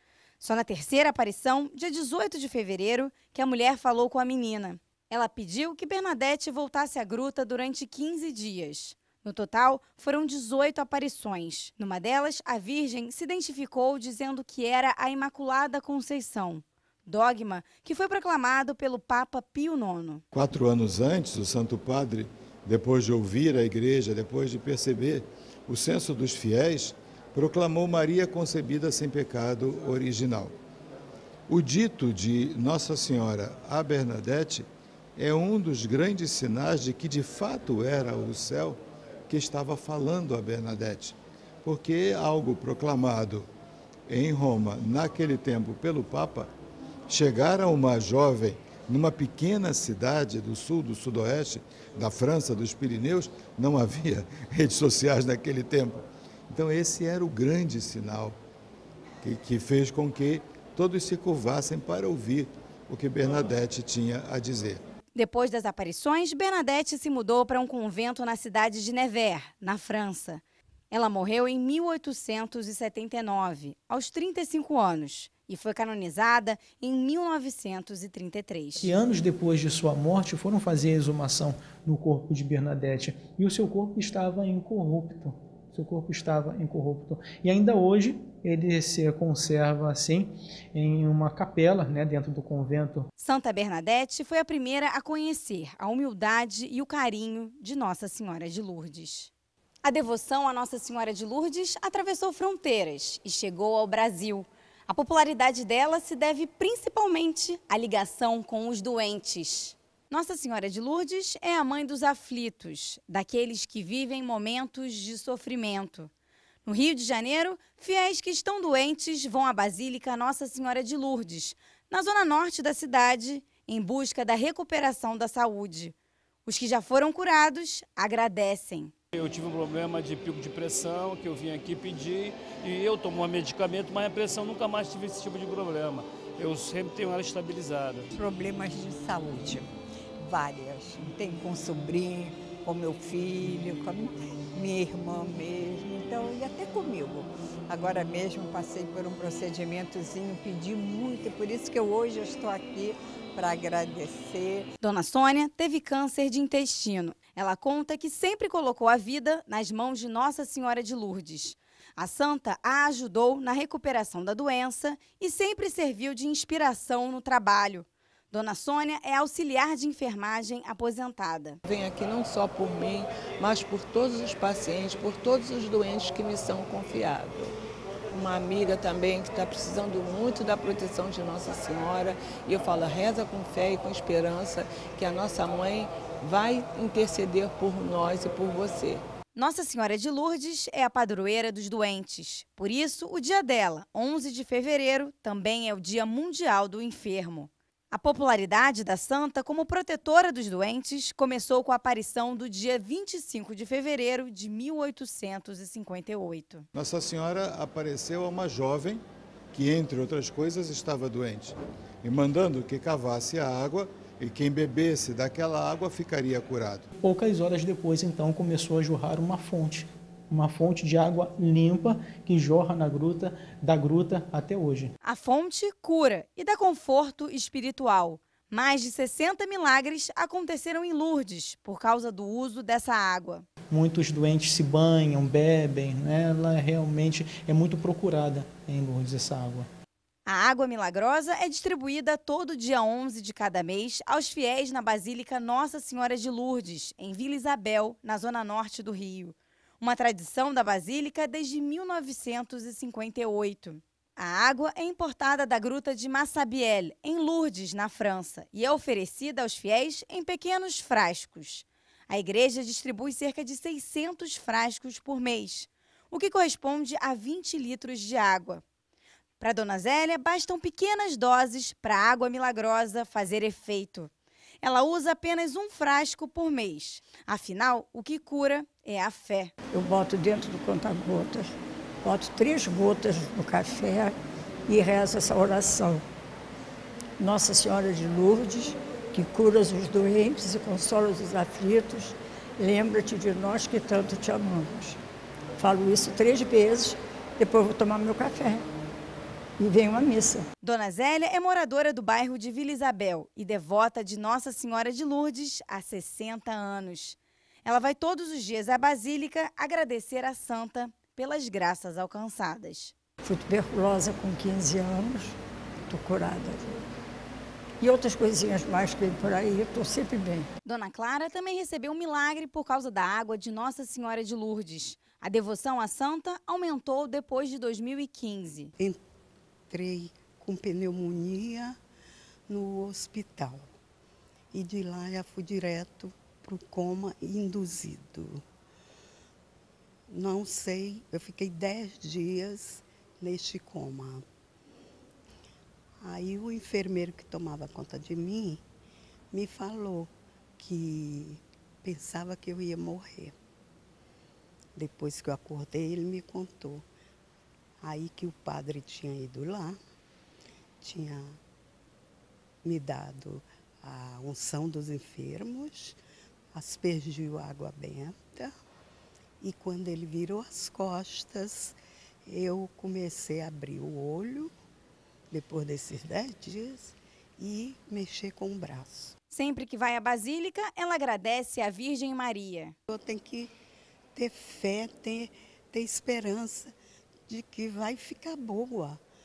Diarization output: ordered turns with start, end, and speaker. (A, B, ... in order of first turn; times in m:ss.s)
0:00.4-0:20.2 A
0:20.3-0:30.5 B
0:31.5-0:43.5 B
0:44.1-0:46.5 B
0:47.1-0:58.4 B
0:59.2-1:04.8 B
1:05.1-1:18.9 A
1:18.8-1:33.1 C
1:33.2-1:39.3 A
1:39.8-1:56.1 A
1:56.6-2:05.9 A
2:06.4-2:08.9 A
2:09.1-2:18.1 D
2:18.1-2:34.7 E
2:34.8-2:51.6 A
2:51.6-2:57.5 F
2:58.1-3:09.0 F
3:09.3-3:26.7 A
3:26.7-3:36.9 B
3:37.0-3:44.9 C
3:45.0-3:53.4 A
3:53.7-3:59.7 C
4:00.2-4:28.6 A
4:29.4-4:34.1 A
4:34.6-4:39.5 A
4:39.7-4:41.5 G
4:42.0-4:44.1 G
4:44.7-4:46.0 G
4:47.2-4:55.0 G
4:55.6-4:58.7 G
4:59.6-5:00.5 G
5:00.6-5:12.9 A
5:13.2-5:15.4 G
5:15.9-5:16.7 G
5:17.8-5:20.5 G
5:20.6-5:28.7 A
5:29.7-5:31.8 H
5:32.5-5:33.7 H
5:34.5-5:38.4 H
5:40.1-5:44.2 H
5:46.0-5:48.6 H
5:49.3-5:53.3 H
5:54.8-5:56.8 H
5:57.8-5:59.8 H
6:00.8-6:01.4 H
6:02.6-6:06.0 H
6:06.5-6:08.5 H
6:09.4-6:14.5 H
6:15.3-6:19.1 H
6:19.3-6:22.7 A
6:22.9-6:23.5 H
6:24.1-6:26.8 H
6:27.3-6:29.0 H